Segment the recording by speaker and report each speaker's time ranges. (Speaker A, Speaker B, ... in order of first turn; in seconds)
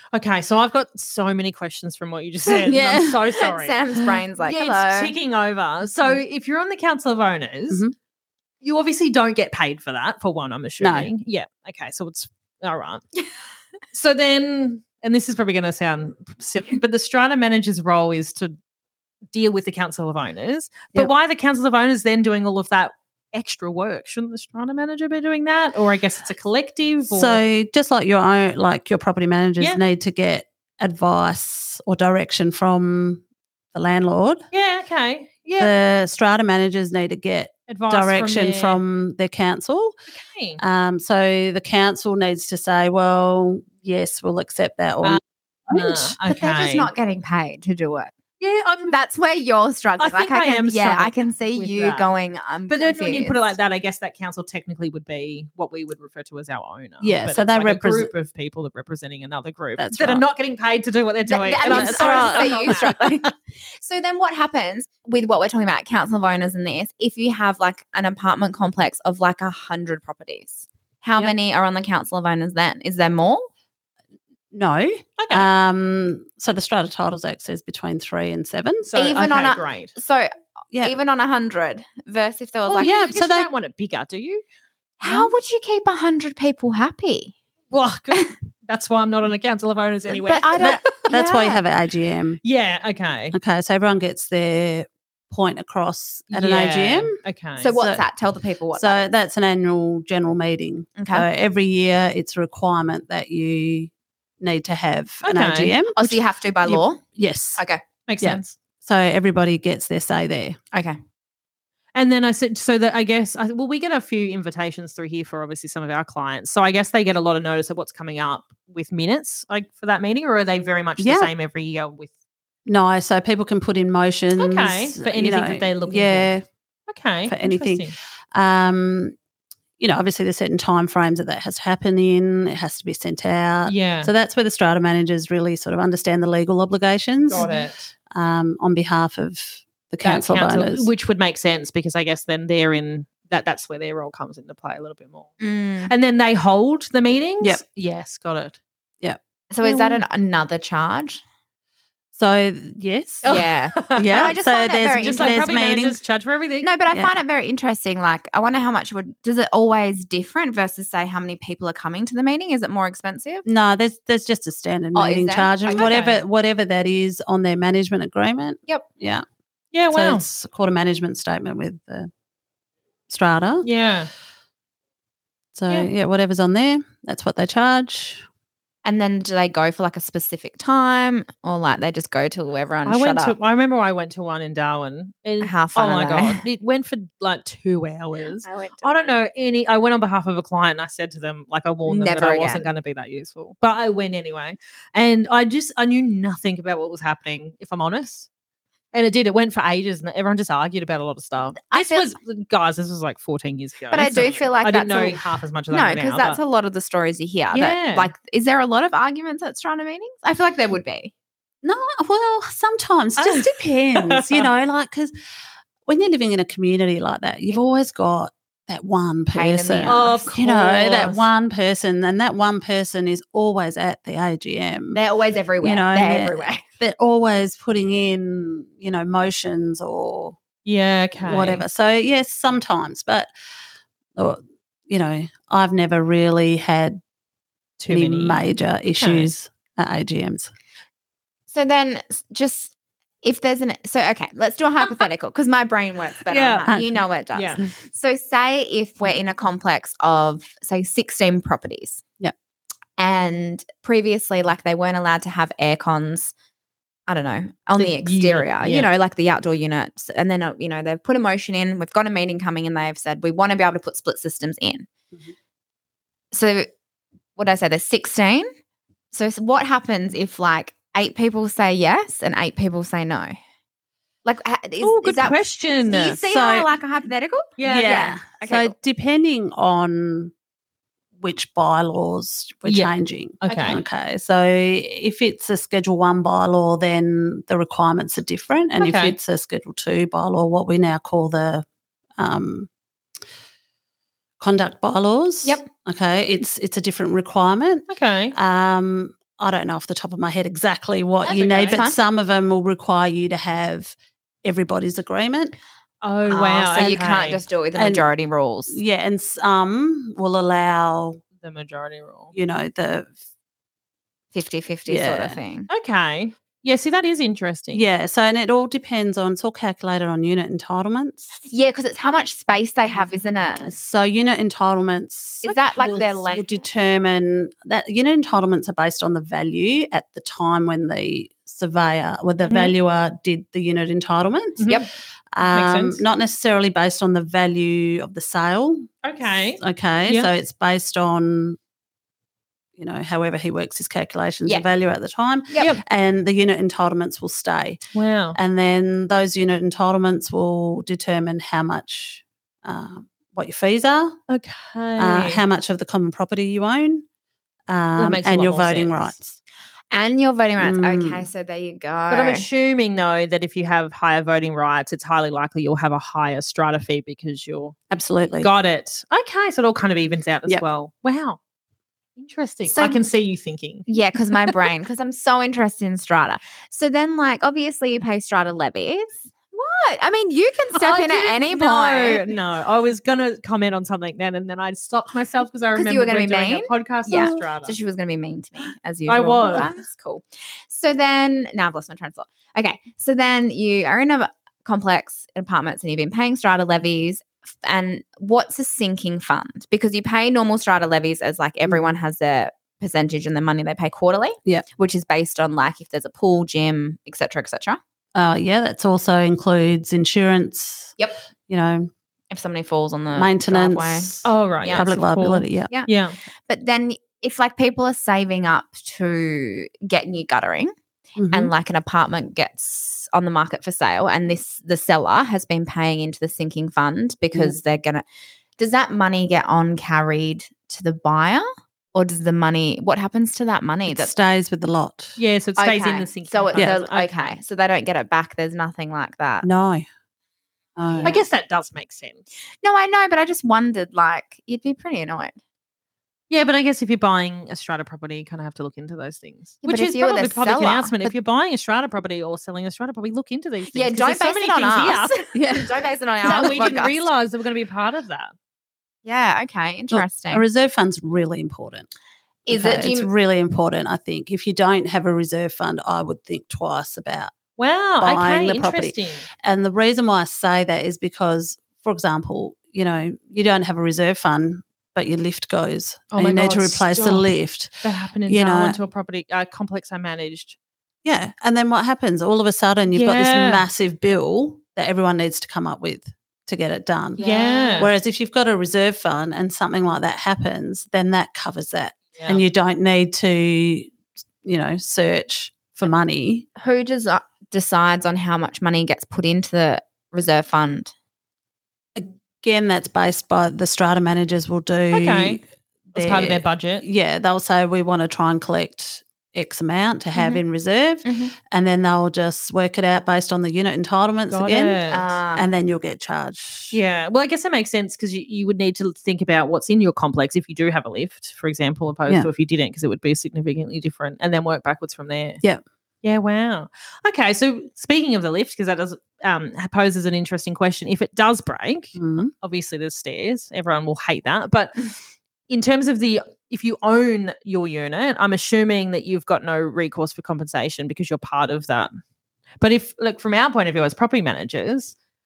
Speaker A: 0.1-7.8, 8.6-13.0, 13.9-18.5, 19.3-27.4, 34.5-35.7, 37.7-38.8, 40.1-40.6, 45.0-46.9, 48.4-48.9, 50.0-52.1, 52.7-63.3, 75.2-75.5, 78.8-79.9, 82.7-84.4, 87.7-91.6, 92.4-93.3, 96.3-97.7, 105.2-105.8, 108.1-108.5, 111.9-122.1, 124.3-126.3, 126.9-127.9, 133.7-134.1, 137.3-137.9, 140.0-145.3, 145.9-148.6, 149.6-150.0, 153.2-154.3, 154.9-156.7, 165.7-166.2, 169.7-170.2, 173.6-174.1, 182.8-198.3, 198.9-206.4, 207.5-208.1, 213.2-214.5, 219.8-221.3, 230.6-231.6, 237.8-238.4, 239.0-239.3, 246.3-246.7, 247.3-247.6, 257.8-258.9, 274.8-276.2, 277.6-278.1, 282.6-282.9, 283.4-283.8, 288.8-289.1, 297.9-298.3, 301.2-301.8, 306.0-307.4, 311.4-312.3, 315.7-317.8, 332.4-332.7, 334.6-334.8, 335.5-336.0, 339.0-340.3, 347.9-348.4, 354.3-355.4, 358.0-359.1, 362.1-367.8, 368.4-371.4, 372.2-373.9, 380.7-387.8, 389.1-389.7, 414.2-416.1, 435.2-437.4, 441.0-442.2, 446.3-455.2, 456.2-458.3, 467.6-469.3, 476.1-477.3, 477.8-480.6, 482.9-483.6, 487.2-487.9, 492.1-492.4, 504.9-505.4, 505.9-506.8, 514.3-515.0, 516.7-525.4, 526.0-535.0, 535.5-541.9, 542.6-544.9
Speaker B: 2.5-3.2, 10.8-11.1, 27.1-33.2, 33.7-34.4, 35.6-39.9, 40.6-46.2, 57.0-58.1, 59.8-60.2, 61.6-62.9, 74.5-78.9, 82.8-83.5, 90.6-92.4, 93.3-97.2, 97.7-98.0, 98.7-106.2, 106.7-107.6, 108.2-110.6, 121.0-121.3, 122.7-126.4, 127.3-129.1, 129.8-137.5, 138.1-140.9, 152.1-153.4, 153.9-156.0, 163.4-169.2, 169.9-172.1, 173.1-173.7, 175.5-178.2, 211.6-215.1, 215.9-225.0, 225.6-230.4, 231.2-233.3, 234.2-237.0, 237.9-240.5, 246.7-247.0, 276.1-276.7, 277.6-280.3, 281.2-291.6, 292.2-292.7, 294.4-305.6, 306.7-307.0, 307.7-308.0, 308.7-311.2, 312.3-313.1, 314.9-315.4, 317.7-321.3, 323.6-334.7, 335.3-338.9, 339.6-341.6, 342.8-347.8, 348.3-354.2, 355.0-357.1, 357.7-359.4, 360.6-361.2, 367.9-368.5, 387.1-387.4, 408.1-410.9, 411.5-411.9, 413.1-415.7, 421.2-421.5, 433.9-435.2, 439.4-439.8, 440.8-441.2, 455.3-455.7, 456.2-456.8, 459.9-461.9, 462.5-467.3, 468.0-478.8, 481.0-487.2, 487.8-493.9, 494.4-496.4, 501.9-505.4, 505.9-514.8, 515.3-516.8, 532.0-532.3
Speaker C: 3.3-5.1, 46.3-48.1, 48.9-53.4, 61.3-73.5, 79.0-83.1, 85.0-87.3, 90.1-91.2, 97.6-99.0, 101.0-101.2, 106.0-107.0, 107.6-107.8, 110.7-111.0, 137.4-137.6, 145.4-145.9, 149.5-151.2, 153.2-155.5, 156.6-163.4, 164.9-165.8, 178.8-183.3, 185.4-186.4, 188.4-189.1, 191.8-192.7, 201.7-202.1, 203.9-205.2, 205.7-211.1, 219.3-220.3, 224.9-226.6, 241.5-252.0, 253.0-256.3, 257.1-264.9, 266.3-266.7, 267.4-268.5, 269.1-273.3, 274.2-278.7, 283.5-283.8, 301.2-302.0, 306.3-308.8, 314.3-315.7, 321.4-323.7, 325.4-326.6, 345.5-345.8, 359.9-362.4, 372.7-373.0, 373.9-382.2, 385.7-407.8, 412.3-414.9, 416.5-420.7, 421.3-428.0, 428.6-434.1, 435.6-439.5, 440.9-441.1, 442.6-445.4, 449.6-451.1, 453.7-457.1, 459.0-460.4, 462.4-463.1, 487.2-487.9, 496.6-500.9, 511.0-511.3, 514.9-515.5